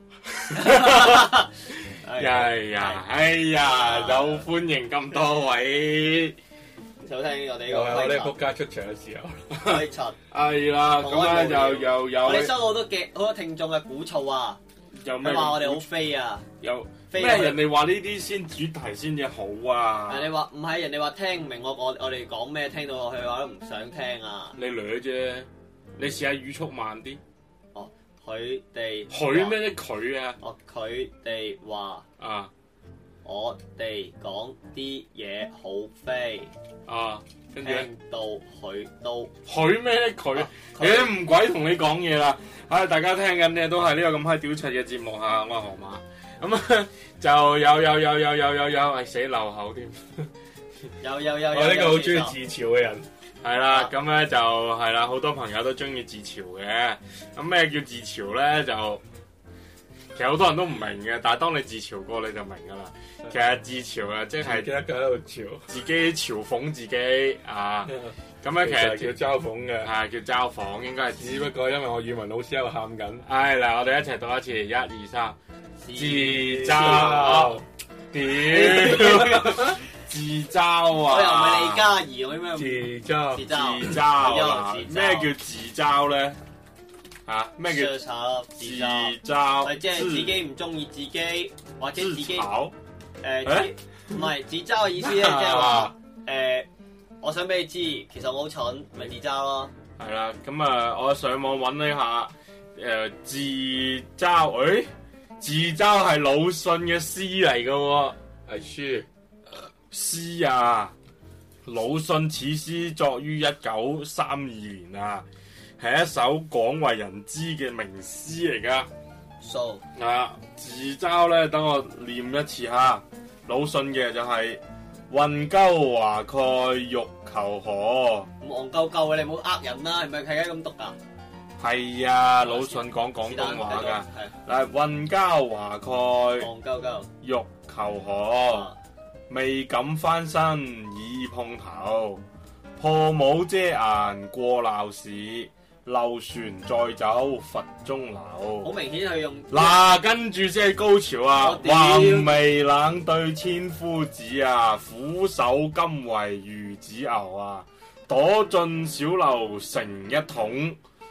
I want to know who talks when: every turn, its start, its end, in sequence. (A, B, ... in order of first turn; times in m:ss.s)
0:00.3-0:01.3 A
0:00.5-0:03.0 B
0:02.1-0:06.4 A
0:03.6-0:04.5 B
0:07.0-0:08.3 B
0:07.7-0:09.4 C
0:09.6-0:12.6 A
0:09.6-0:10.2 B
0:11.0-0:14.6 B
0:15.0-0:15.8 A
0:15.2-0:16.5 B
0:16.6-0:20.3 A
0:17.1-0:17.6 B
0:20.1-0:24.6 B
0:24.6-0:27.2 A
0:27.7-0:29.6 B
0:29.1-0:30.4 A
0:30.4-0:32.0 B
0:32.2-0:32.5 A
0:33.2-0:36.5 B
0:36.9-0:37.9 A
0:37.6-0:39.3 B
0:39.4-0:50.3 A
0:40.4-0:41.2 B
0:51.0-0:52.4 B
0:51.5-0:53.1 C
0:53.4-0:59.0 A
0:53.7-0:53.9 B
1:00.1-1:04.7 A
1:04.4-1:05.7 C
1:05.7-1:09.2 A
1:07.8-1:09.9 C
1:09.8-1:11.5 A
1:11.1-1:13.2 C
1:13.2-1:15.4 A
1:15.8-1:17.5 B
1:15.9-1:21.9 A
1:16.2-1:17.6 C
1:18.4-1:19.8 B
1:21.1-1:25.3 B
1:22.5-1:23.5 C
1:23.5-1:26.4 A
1:27.2-1:28.0 A
1:27.6-1:32.5 B
1:28.6-1:30.4 A
1:32.0-1:32.7 A
1:33.2-1:36.7 B
1:33.4-1:33.7 A
1:35.0-1:35.9 A
1:37.2-1:39.7 B
1:40.0-1:48.2 A
1:48.5-1:49.1 C
1:49.5-1:50.9 A
1:51.6-1:55.3 A
1:55.8-1:58.9 A
1:59.4-1:59.8 B
1:59.9-2:08.3 A
2:08.4-2:11.0 B
2:11.6-2:16.5 A
2:12.4-2:14.4 B
2:16.4-2:17.1 B
2:17.2-2:18.7 A
2:18.5-2:18.8 B
2:19.3-2:22.2 A
2:22.8-2:28.7 A
2:28.6-2:29.8 B
2:29.5-2:40.8 A
2:31.4-2:32.4 B